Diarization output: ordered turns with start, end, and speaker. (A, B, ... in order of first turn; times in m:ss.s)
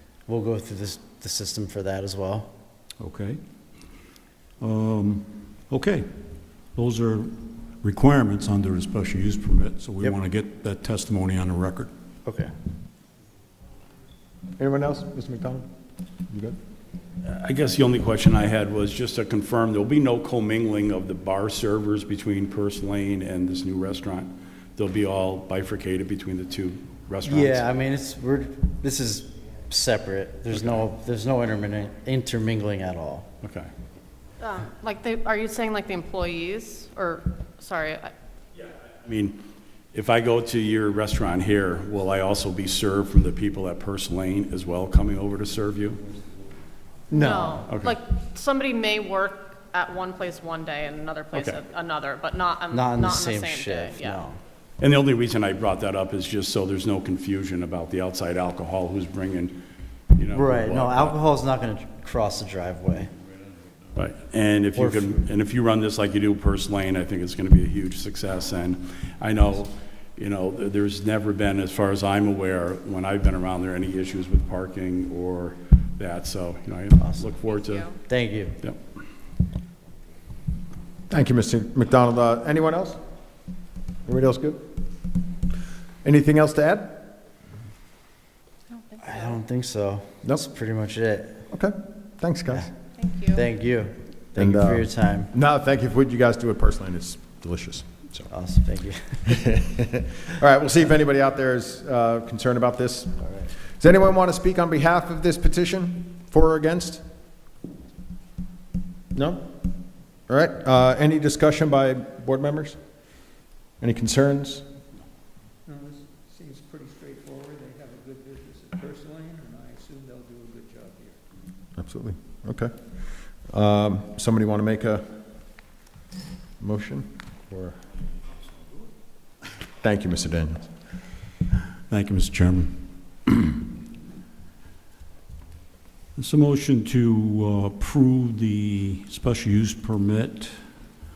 0:00.3-0:02.5 A
0:03.0-0:03.4 B
0:04.6-0:06.1 B
0:06.7-0:11.9 B
0:12.2-0:12.5 A
0:14.6-0:15.7 C
0:16.3-0:16.6 C
0:17.2-0:27.7 D
0:27.2-0:33.3 A
0:30.5-0:30.8 D
0:33.4-0:33.7 D
0:34.4-0:38.1 E
0:38.6-0:39.4 D
0:39.9-0:46.1 D
0:47.1-0:47.7 A
0:47.1-0:54.2 E
0:47.7-0:47.9 D
0:51.3-0:51.6 D
0:52.7-0:54.4 A
0:54.8-1:01.2 D
1:00.3-1:03.1 A
1:03.9-1:17.9 D
1:04.8-1:05.2 A
1:17.0-1:17.3 A
1:17.5-1:17.9 E
1:18.0-1:18.6 A
1:21.1-1:23.0 C
1:24.0-1:24.7 C
1:26.0-1:27.1 C
1:28.7-1:29.3 E
1:29.0-1:31.4 A
1:31.5-1:32.7 C
1:33.0-1:33.4 E
1:33.3-1:35.3 A
1:34.4-1:38.3 C
1:38.3-1:39.2 A
1:39.3-1:47.0 C
1:49.1-1:49.5 C
1:50.3-1:52.8 C
1:53.8-1:54.6 C
1:55.6-2:01.2 F
2:01.8-2:05.1 C
2:06.6-2:07.8 C
2:09.8-2:10.7 C
2:11.9-2:13.6 B
2:16.2-2:20.6 B